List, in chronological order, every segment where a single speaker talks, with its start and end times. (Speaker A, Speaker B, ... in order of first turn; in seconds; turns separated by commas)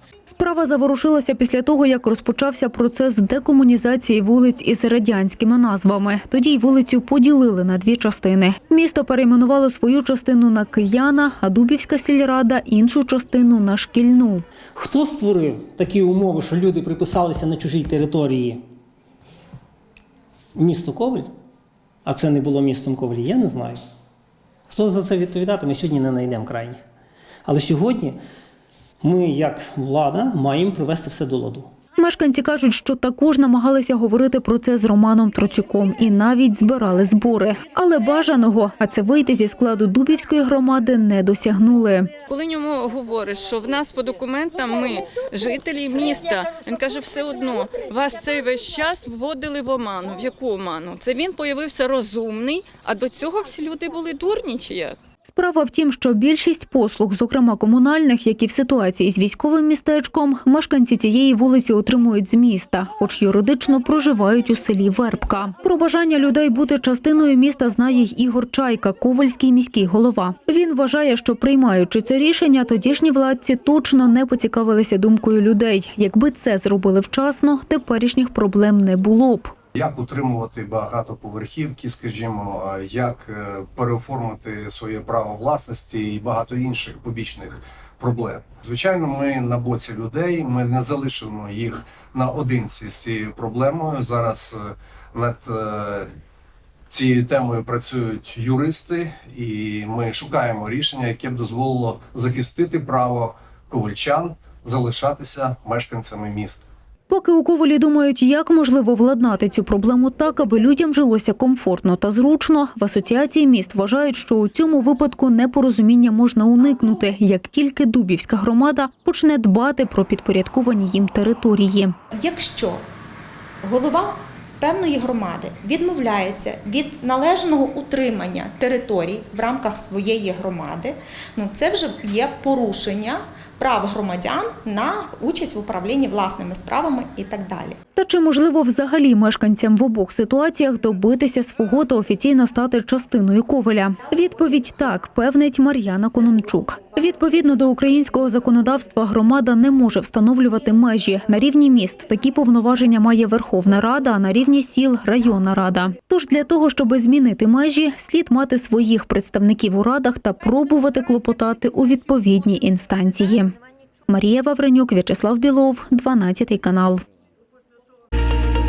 Speaker A: 0.3-14.5, Speaker B: 14.8-18.6, Speaker B: 20.6-21.3, Speaker B: 22.1-23.8, Speaker B: 24.7-26.8, Speaker B: 27.5-28.2, Speaker B: 29.0-31.7, Speaker A: 32.0-42.1, Speaker C: 42.2-55.0, Speaker A: 55.2-79.5, Speaker D: 79.8-96.1, Speaker D: 96.9-106.6, Speaker A: 107.1-121.9, Speaker E: 122.1-122.9, Speaker E: 123.6-137.8, Speaker A: 138.0-163.5, Speaker A: 164.1-167.0